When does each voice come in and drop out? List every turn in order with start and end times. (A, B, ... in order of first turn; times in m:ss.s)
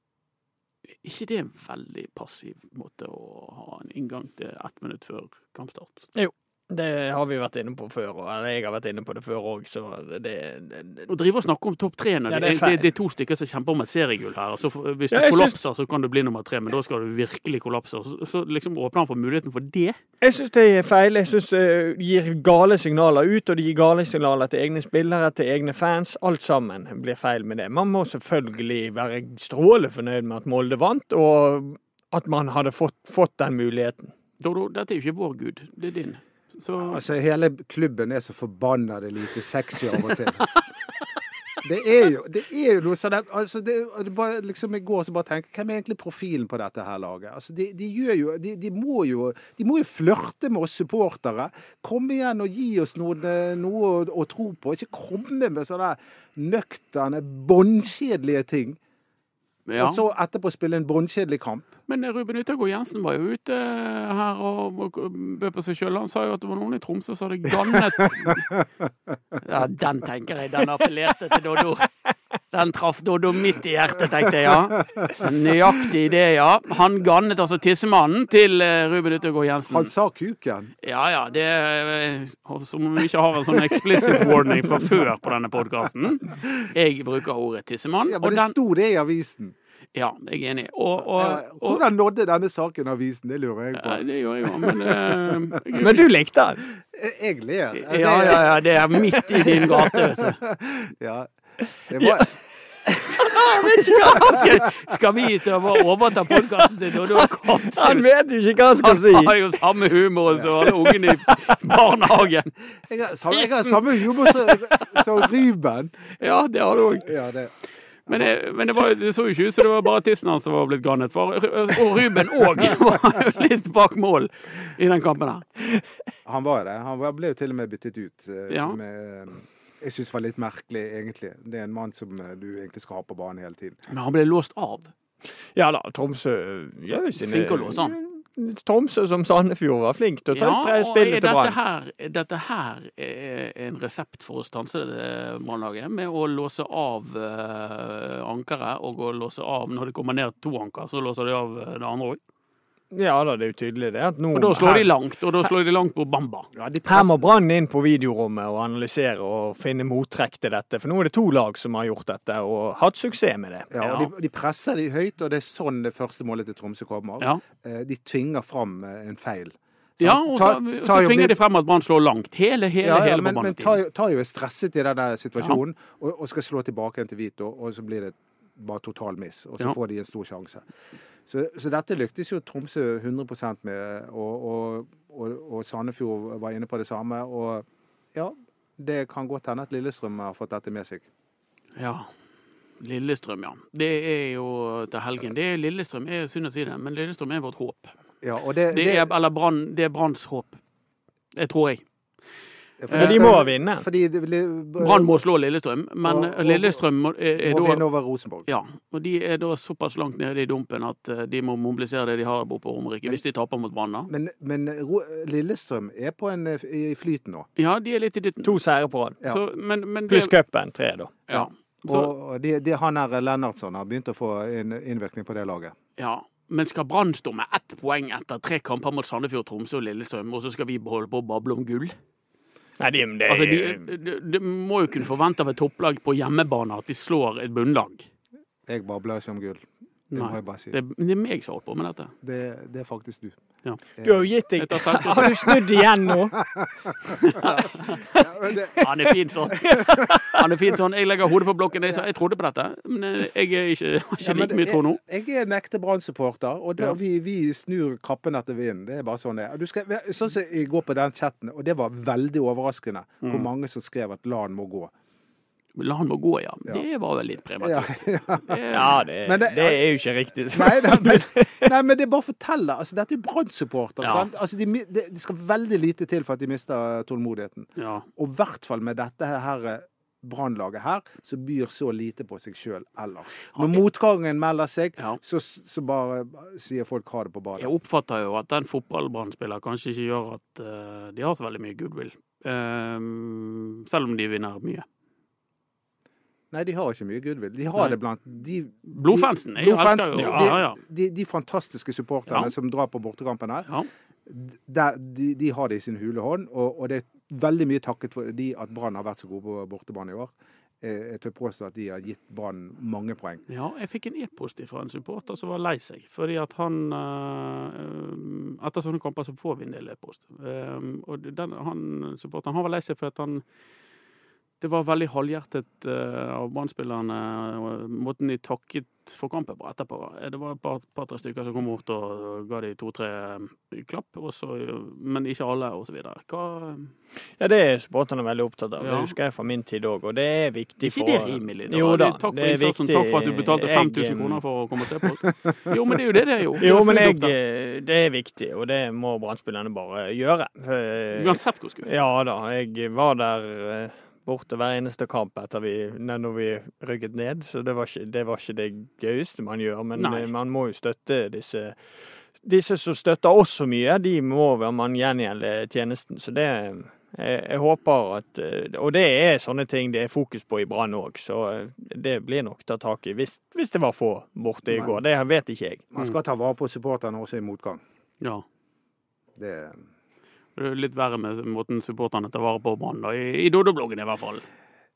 0:01.0-0:06.1 A
0:06.2-0:11.1 B
0:11.1-0:20.0 A
0:12.3-0:12.9 B
0:15.1-0:15.6 B
0:20.2-0:34.1 B
0:34.4-0:37.0 A
0:36.8-0:40.5 C
0:41.6-0:58.8 C
0:59.7-1:00.0 A
0:59.8-1:01.7 C
1:01.9-1:08.5 A
1:07.8-1:08.6 C
1:09.4-1:11.9 A
1:12.5-1:19.9 A
1:14.8-1:15.3 C
1:19.7-1:20.7 C
1:20.8-1:28.6 A
1:24.0-1:24.3 C
1:26.4-1:26.6 C
1:28.1-1:29.6 C
1:30.0-1:31.8 A
1:31.0-1:35.6 C
1:33.8-1:36.1 A
1:35.8-1:36.6 B
1:36.8-1:41.3 C
1:37.8-1:40.4 A
1:41.9-1:42.3 C
1:42.0-1:44.7 B
1:42.8-1:43.4 C
1:44.0-1:48.1 A
1:46.3-1:49.3 B
1:48.8-1:52.5 A
1:50.6-1:51.8 B
1:52.8-1:56.1 C
1:53.3-1:55.2 A
1:56.2-1:57.1 A
1:57.0-1:57.5 C
1:58.1-1:58.3 C
1:58.1-2:05.5 A
2:06.2-2:13.8 C
2:08.5-2:08.8 A
2:13.9-2:14.9 A
2:15.6-2:21.6 B
2:17.2-2:18.0 A
2:20.3-2:32.2 A
2:32.9-2:34.9 B
2:34.3-2:36.5 A
2:36.6-2:37.2 C
2:36.9-2:43.7 B
2:43.7-2:51.4 C
2:43.8-2:44.1 A
2:50.0-2:53.8 A
2:52.8-3:00.7 C
3:01.3-3:11.1 C
3:11.8-3:12.1 A
3:12.8-3:17.9 A
3:18.2-3:19.1 C
3:18.7-3:20.6 A
3:21.4-3:21.8 A
3:22.8-3:25.1 C
3:22.9-3:23.4 A
3:23.0-3:23.9 B
3:24.8-3:27.9 A
3:26.0-3:26.8 C
3:27.4-3:28.5 C
3:28.5-3:34.1 A
3:34.1-3:37.5 C
3:37.6-3:38.6 A
3:38.4-3:39.2 B
3:39.2-3:40.3 A
3:40.1-3:41.2 B
3:41.3-3:42.1 A
3:41.3-3:45.8 C
3:46.0-3:52.0 A
3:52.8-3:53.9 B
3:53.3-3:58.1 A
3:58.7-4:00.8 C
4:00.1-4:02.1 A
4:02.2-4:03.4 C
4:04.0-4:04.3 C
4:04.0-4:06.4 B
4:04.6-4:05.6 A
4:05.1-4:10.1 C
4:07.1-4:15.0 A
4:07.4-4:08.2 B
4:08.8-4:10.4 B
4:14.2-4:24.9 C
4:23.2-4:23.5 A
4:25.8-4:29.0 A
4:27.6-4:30.0 C
4:28.7-4:31.7 B
4:30.5-4:47.7 C
4:34.0-4:34.3 A
4:37.8-4:38.1 A
4:47.6-4:54.8 A
4:56.5-5:03.7 C
4:58.9-5:00.8 A
5:00.2-5:00.6 B
5:04.3-5:13.4 C
5:13.5-5:23.4 A
5:24.6-5:36.9 A
5:37.4-5:44.4 B
5:38.8-5:39.2 A
5:40.8-5:47.4 A
5:46.6-6:15.8 B
5:51.2-5:51.9 A
6:00.0-6:00.3 A
6:14.7-6:15.0 C
6:15.9-6:17.8 C
6:19.4-6:19.9 C
6:20.6-6:24.5 A